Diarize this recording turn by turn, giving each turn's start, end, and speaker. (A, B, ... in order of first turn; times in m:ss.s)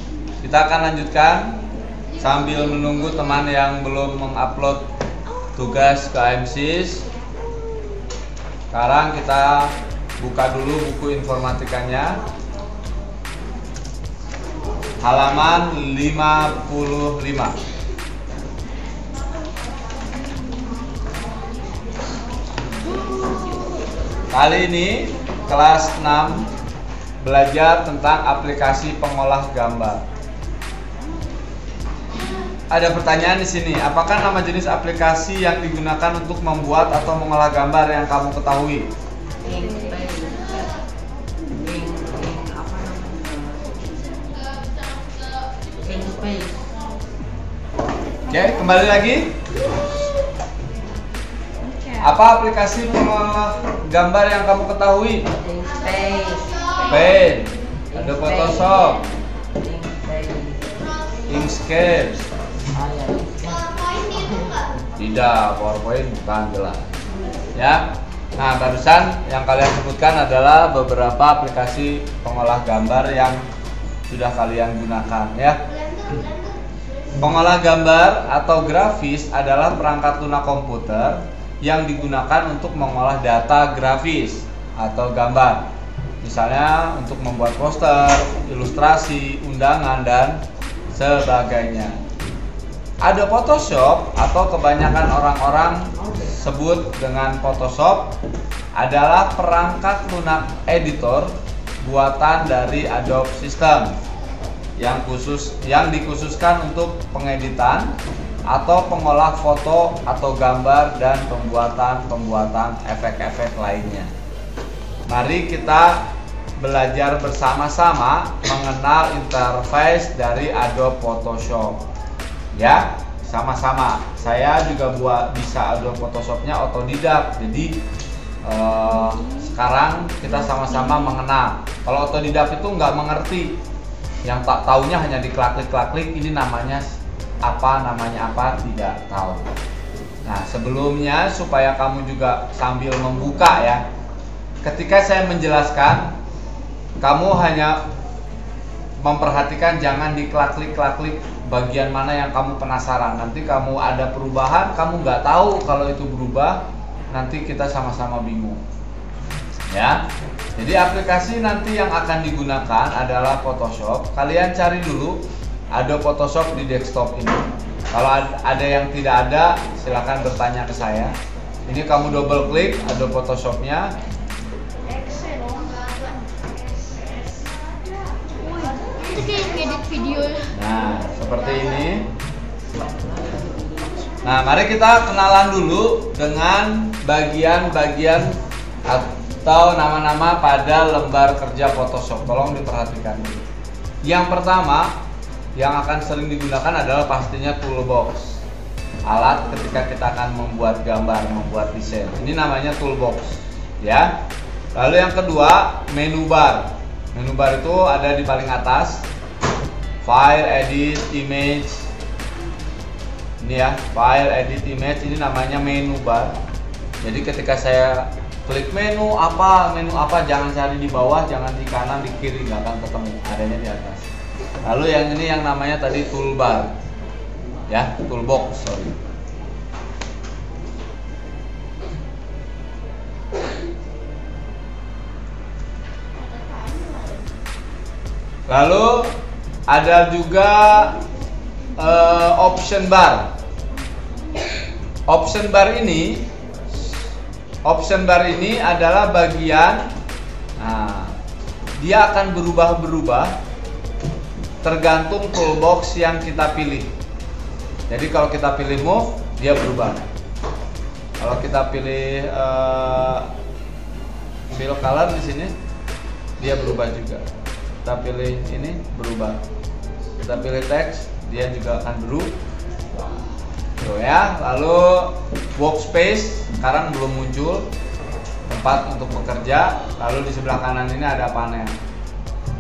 0:00.4-0:01.6 A
0:02.2-0:04.8 A
0:05.6-0:07.0 A
0:08.7-0:12.2 A
0:15.0-0:17.6 A
0:24.3-0:26.5 A
0:27.2-0:30.0 A
0:32.7-0:38.9 A
0:39.4-0:40.6 B
0:41.5-0:44.5 B
0:45.8-0:46.8 B
0:48.3-0:49.3 A
0:51.9-0:55.3 A
0:55.3-0:56.8 B
0:56.8-0:59.0 A
0:57.9-0:59.0 B
0:59.5-1:00.8 B
1:01.3-1:02.2 A
1:02.7-1:04.8 B
1:05.0-1:06.8 A
1:07.6-1:07.8 A
1:08.4-1:13.4 A
1:14.1-1:16.1 A
1:17.2-1:25.6 A
1:26.2-1:30.4 A
1:30.9-1:32.0 A
1:33.0-1:38.1 A
1:36.0-1:36.4 B
1:38.8-1:44.0 A
1:44.8-1:47.9 A
1:48.5-1:54.1 A
1:55.1-1:56.0 A
1:56.6-2:01.8 A
2:02.5-2:07.7 A
2:08.4-2:13.6 A
2:14.2-2:19.5 A
2:20.2-2:23.8 A
2:24.6-2:26.1 A
2:27.0-2:27.8 A
2:29.0-2:38.6 A
2:39.7-2:40.0 A
2:40.6-2:45.2 A
2:45.7-2:51.1 A
2:51.7-2:53.9 A
2:55.3-2:55.6 C
2:58.5-3:00.5 C
3:00.5-3:02.1 A
3:02.7-3:04.1 B
3:04.2-3:08.3 A
3:08.9-3:13.4 A
3:14.0-3:14.9 A
3:15.6-3:18.4 A
3:19.1-3:24.1 A
3:24.8-3:29.0 A
3:30.0-3:31.8 A
3:33.4-3:36.3 A
3:37.0-3:44.0 A
3:44.6-3:46.7 A
3:47.7-3:48.9 A
3:58.5-3:59.1 A
3:59.7-4:01.0 A
4:01.8-4:03.3 A
4:05.1-4:06.2 A
4:07.7-4:09.8 A
4:10.6-4:11.1 A
4:11.8-4:13.4 A
4:14.6-4:16.9 A
4:17.9-4:20.0 A
4:21.2-4:23.3 A
4:24.5-4:25.5 A
4:26.4-4:27.2 A
4:27.8-4:29.4 A
4:30.2-4:32.3 A
4:33.8-4:37.7 A
4:38.5-4:41.7 A